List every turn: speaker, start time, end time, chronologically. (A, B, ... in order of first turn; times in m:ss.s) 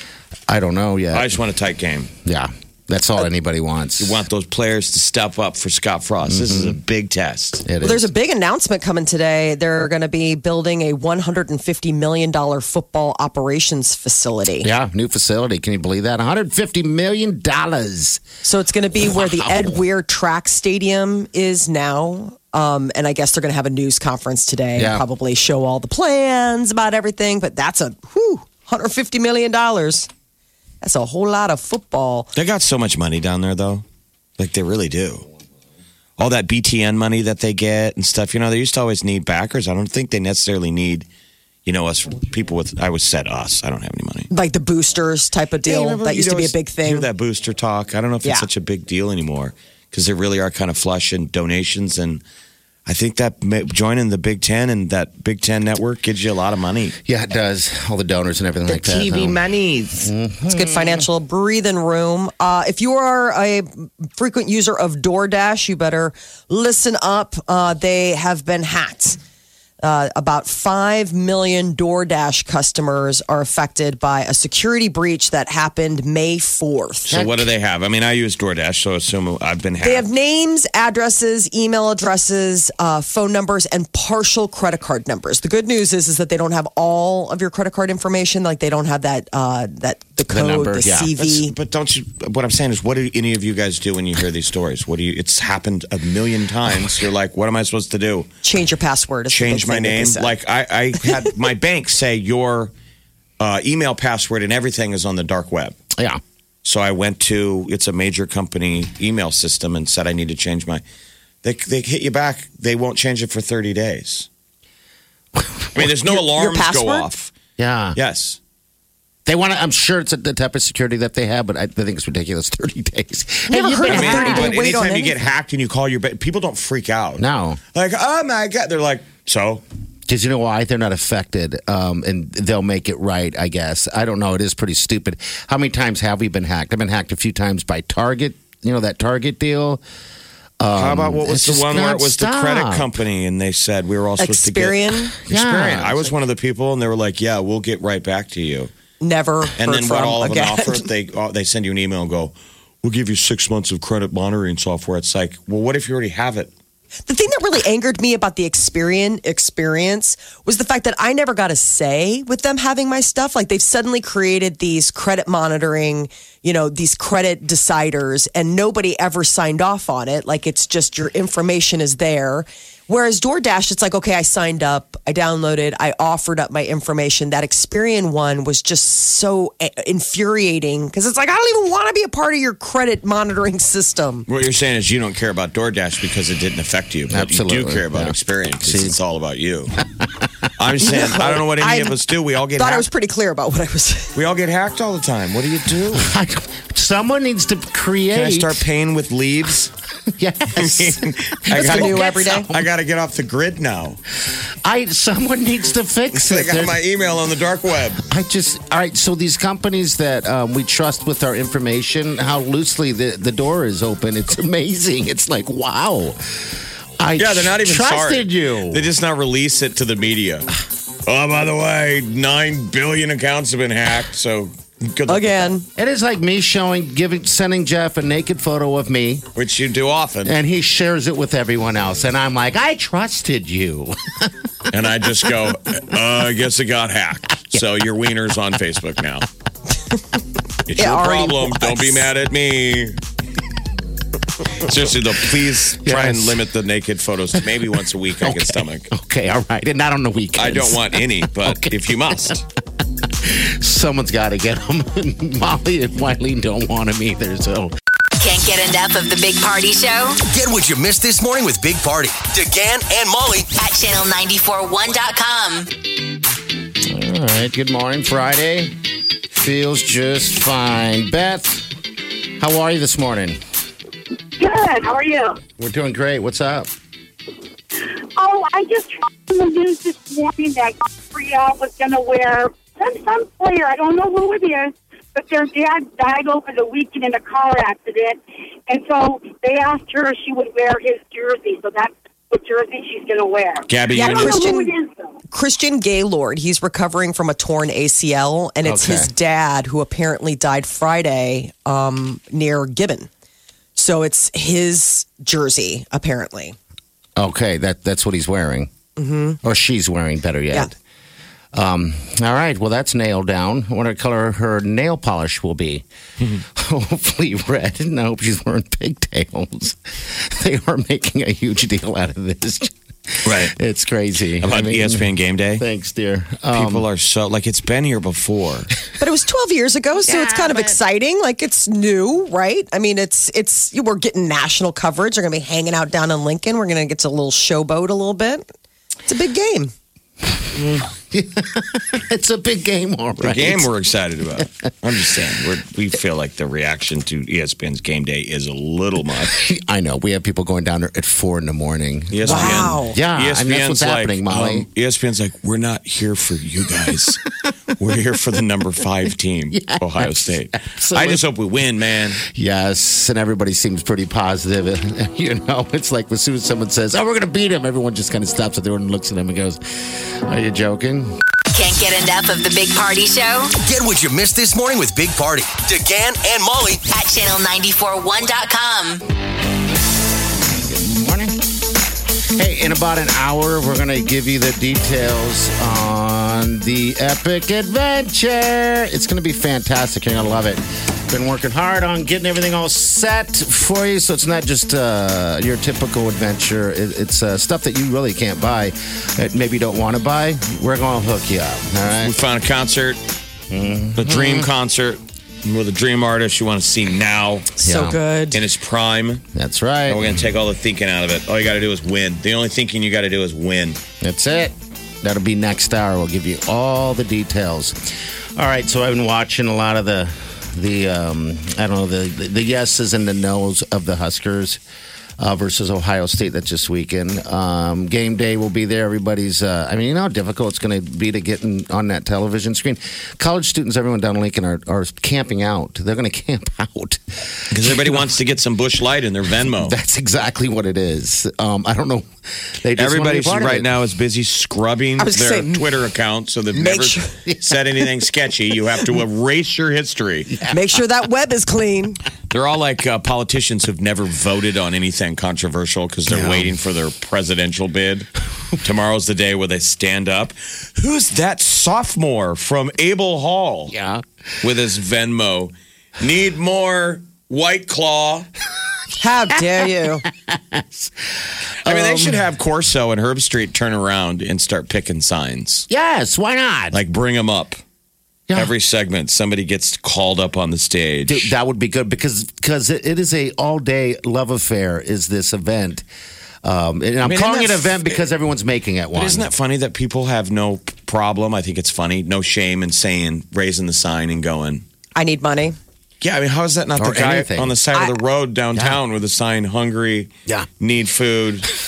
0:00.5-0:01.4 A
0:01.1-0:02.1 B
0:02.2-0:04.2 A
0:04.0-0:07.6 B
0:06.2-0:06.8 A
0:07.6-0:08.1 A
0:07.8-0:14.7 C
0:14.6-0:18.2 A
0:18.4-0:30.1 C
0:19.0-0:19.8 A
0:24.8-0:25.0 A
0:30.8-0:32.3 C
0:32.3-0:33.8 B
0:34.4-0:35.2 B
0:36.2-0:41.1 B
0:41.6-0:44.3 B
0:44.3-0:47.1 C
0:45.6-0:52.2 B
0:52.8-0:57.0 B
0:57.0-1:01.0 A
0:58.7-1:00.1 B
1:00.5-1:09.2 C
1:09.8-1:17.1 C
1:17.1-1:20.0 B
1:17.1-1:17.5 A
1:19.8-1:31.5 C
1:30.3-1:31.1 A
1:31.2-1:38.3 B
1:38.4-1:40.3 C
1:39.3-1:42.7 B
1:43.4-1:45.8 B
1:46.6-1:50.8 B
1:51.4-1:54.3 B
1:55.4-1:55.8 A
1:55.7-1:57.3 B
1:56.1-1:57.0 C
1:57.6-1:58.0 A
1:58.0-1:58.4 B
1:59.2-2:04.5 A
2:03.5-2:05.1 C
2:03.9-2:07.2 B
2:07.2-2:07.6 A
2:07.7-2:09.6 B
2:10.1-2:19.8 A
2:20.6-2:22.9 A
2:20.7-2:28.7 B
2:24.2-2:25.1 C
2:25.2-2:26.1 A
2:29.0-2:30.8 C
2:29.6-2:36.5 B
2:37.1-3:04.2 C
3:04.3-3:09.8 B
3:07.1-3:09.0 A
3:10.6-3:12.8 B
3:10.8-3:12.0 C
3:12.6-3:14.1 C
3:14.1-3:16.1 B
3:15.9-3:18.6 A
3:18.1-3:19.7 B
3:20.1-3:22.7 A
3:20.5-3:24.0 B
3:21.5-3:22.5 C
3:24.6-3:26.8 A
3:26.1-3:28.0 B
3:28.0-3:38.8 A
3:37.2-3:40.5 B
3:41.0-3:45.5 B
3:45.1-3:45.6 C
3:45.8-3:49.3 A
3:49.3-3:50.4 B
3:50.2-3:54.3 A
3:54.7-3:59.3 B
4:00.7-4:03.0 B
4:00.8-4:02.1 C
4:04.6-4:08.9 B
4:05.8-4:06.4 A
4:08.2-4:12.4 A
4:10.4-4:12.4 B
4:13.0-4:17.7 A
4:18.2-4:20.2 D
4:20.3-4:23.5 E
4:23.6-4:25.7 D
4:26.8-4:28.8 A
4:29.3-4:31.7 A
4:32.4-4:33.4 A
4:34.4-4:35.4 F
4:35.6-4:36.7 A
4:37.9-4:55.1 F
4:53.7-4:54.6 B
4:53.9-4:54.7 C
4:55.3-5:03.1 C
4:58.6-4:59.1 A
5:03.8-5:06.6 C
5:07.2-5:08.7 A
5:09.0-5:09.4 C
5:09.4-5:10.7 A
5:11.5-5:15.8 A
5:16.4-5:26.8 A
5:23.2-5:23.5 B
5:24.4-5:25.6 B
5:26.5-5:28.7 B
5:29.0-5:38.4 C
5:30.0-5:30.8 A
5:39.1-5:39.7 C
5:40.5-5:43.7 A
5:43.2-5:49.4 B
5:49.2-5:54.6 A
5:52.1-5:57.2 B
5:52.3-5:53.0 C
5:56.9-5:57.2 A
5:57.8-6:02.2 B
5:59.5-6:01.2 A
6:02.2-6:11.1 A
6:11.5-6:13.5 D
6:13.6-6:16.8 E
6:16.9-6:19.0 D
6:20.4-6:21.4 A
6:22.4-6:42.1 A
6:42.0-6:43.0 B
6:43.5-6:44.5 A
6:44.0-6:47.5 B
6:47.6-6:48.4 C
6:47.6-6:48.0 A
6:48.3-6:49.2 B
6:49.3-6:50.2 A
6:49.9-6:53.8 B
6:54.0-6:57.8 A
6:58.4-7:04.6 A
7:05.2-7:18.0 A
7:17.5-7:19.8 B
7:19.5-7:23.7 A
7:22.8-7:30.3 B
7:25.0-7:25.6 C
7:26.5-7:27.1 C
7:27.3-7:27.6 A
7:30.5-7:32.0 C
7:32.3-7:43.7 B
7:36.1-7:36.5 A
7:43.7-7:44.0 A
7:44.4-7:48.3 B
7:49.0-7:50.0 C
7:49.6-7:50.9 A
7:51.6-7:52.2 A
7:51.6-7:55.7 B
7:55.7-7:56.8 A
7:56.7-7:57.6 B
7:58.3-8:01.3 B
8:01.0-8:05.8 A
8:06.4-8:09.3 A
8:07.0-8:08.0 B
8:08.9-8:14.6 B
8:15.0-8:15.6 C
8:16.0-8:21.5 B
8:16.8-8:17.6 A
8:18.5-8:18.8 A